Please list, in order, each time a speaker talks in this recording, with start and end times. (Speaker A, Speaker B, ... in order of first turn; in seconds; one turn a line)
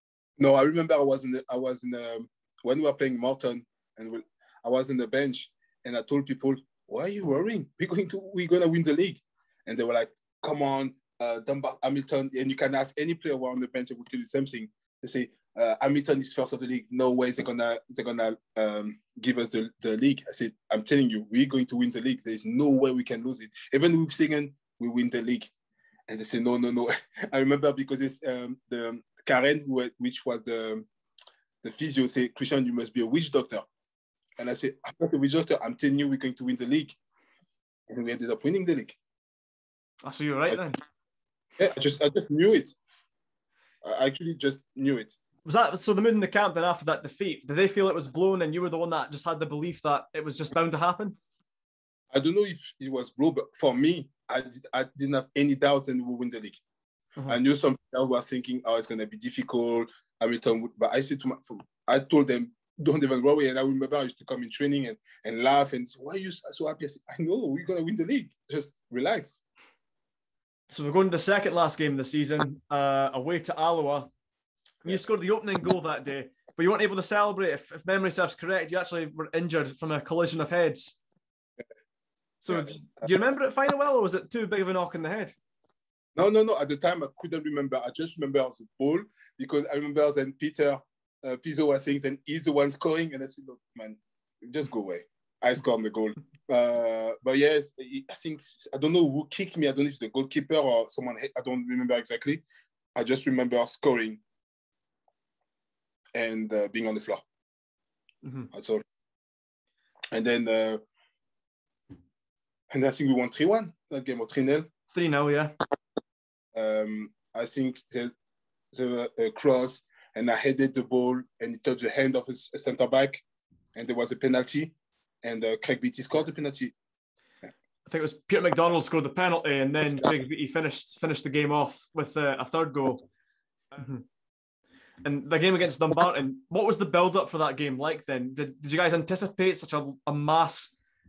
Speaker A: 0.4-25.5
Speaker A: 26.1-30.9
Speaker A: 31.6-33.6
Speaker A: 34.4-37.0
Speaker A: 37.9-39.0
Speaker B: 40.0-40.8
Speaker A: 41.6-42.8
Speaker A: 43.8-45.1
Speaker B: 45.5-51.2
Speaker A: 52.1-56.6
Speaker A: 57.3-69.4
Speaker B: 70.7-74.1
Speaker B: 74.8-81.0
Speaker B: 82.4-85.3
Speaker A: 82.5-82.7
Speaker A: 86.2-102.4
Speaker A: 103.0-104.2
Speaker A: 106.2-107.2
Speaker B: 108.2-108.5
Speaker A: 108.5-108.8
Speaker A: 110.1-110.8
Speaker A: 112.7-114.7
Speaker B: 114.9-115.5
Speaker A: 116.5-118.1
Speaker A: 118.7-123.2
Speaker A: 123.8-126.7
Speaker B: 127.9-133.1
Speaker B: 133.7-134.1
Speaker B: 135.0-140.7